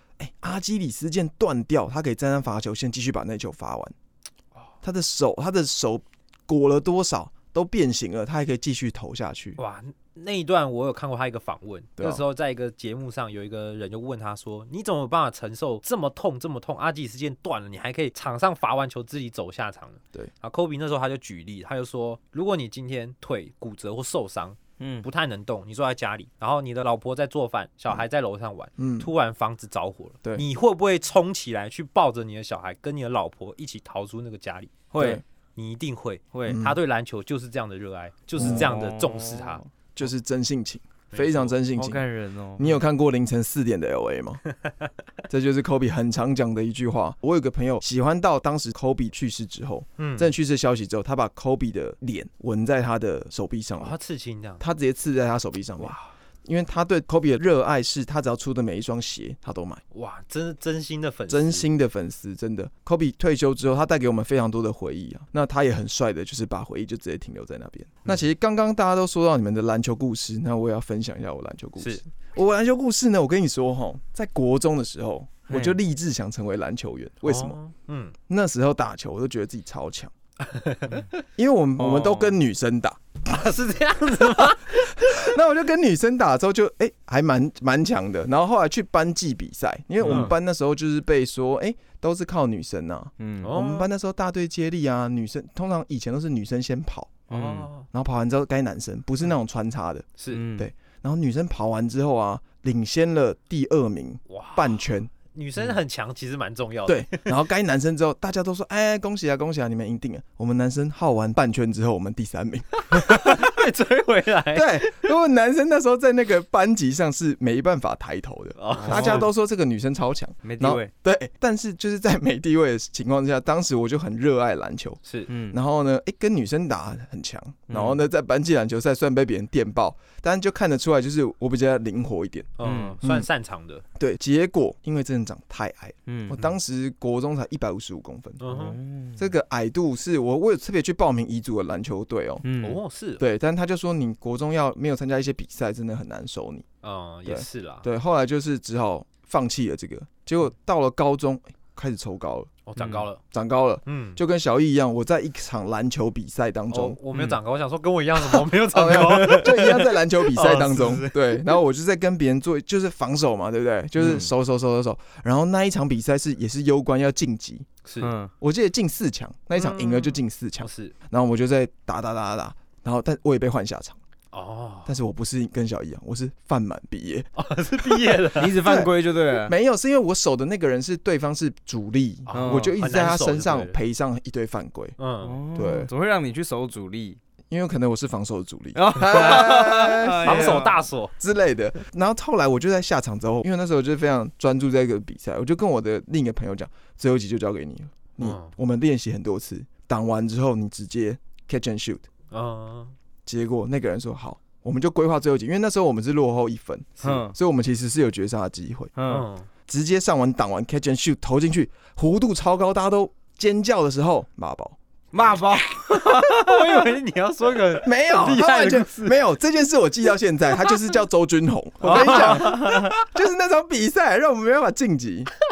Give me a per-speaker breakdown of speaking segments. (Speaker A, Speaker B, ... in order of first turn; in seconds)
Speaker A: 0.2-3.9, 4.8-9.6, 12.0-12.2, 28.8-29.1, 35.0-35.2, 36.5-36.8, 38.4-38.7, 40.0-42.1, 42.6-44.4, 45.3-53.9, 54.6-59.8, 61.3-77.6, 78.3-80.1, 81.4-83.4, 84.6-97.3, 97.9-105.1, 106.9-113.5, 114.5-132.5, 133.0-133.3, 134.0-138.4, 139.2-142.4, 143.2-146.7, 147.3-152.6, 153.3-157.0, 158.4-167.7, 168.4-174.0, 174.9-177.3, 177.8-185.0, 185.6-185.9, 187.5-202.1, 203.3-208.9, 209.7-214.8, 217.8-225.3
Speaker B: 9.6-39.6, 41.1-41.6, 50.0-50.3, 53.8-54.6, 55.8-56.1, 59.9-61.7, 77.2-78.2, 80.5-81.1, 83.3-85.3, 90.1-90.3, 93.4-93.9, 97.3-97.9, 104.3-107.3, 112.9-115.1, 118.6-119.3, 132.6-133.8, 138.4-138.8, 142.6-143.2, 146.8-147.8, 152.7-153.2, 153.9-154.2, 156.7-161.4, 167.8-168.1, 169.6-170.9, 174.3-174.9, 177.4-178.6, 182.3-183.8, 185.0-185.4, 189.2-189.5, 190.2-191.1, 198.2-198.6, 202.3-202.9, 209.1-209.5, 215.7-219.2, 221.8-223.1
Speaker C: 24.8-25.1, 34.9-35.2, 36.3-36.6, 38.4-39.6, 41.8-42.8, 75.5-75.8, 81.8-82.4, 90.0-90.3, 93.2-93.5, 97.3-97.7, 100.3-100.7, 118.8-119.3, 120.4-120.9, 125.3-125.6, 127.7-128.1, 132.6-133.0, 136.1-136.5, 138.5-139.3, 142.4-142.8, 152.8-153.0, 164.0-164.3, 168.0-168.3, 178.3-179.5, 182.3-182.8, 185.2-187.2, 188.8-190.7, 207.0-207.3, 209.0-209.3, 215.1-216.9, 221.8-222.9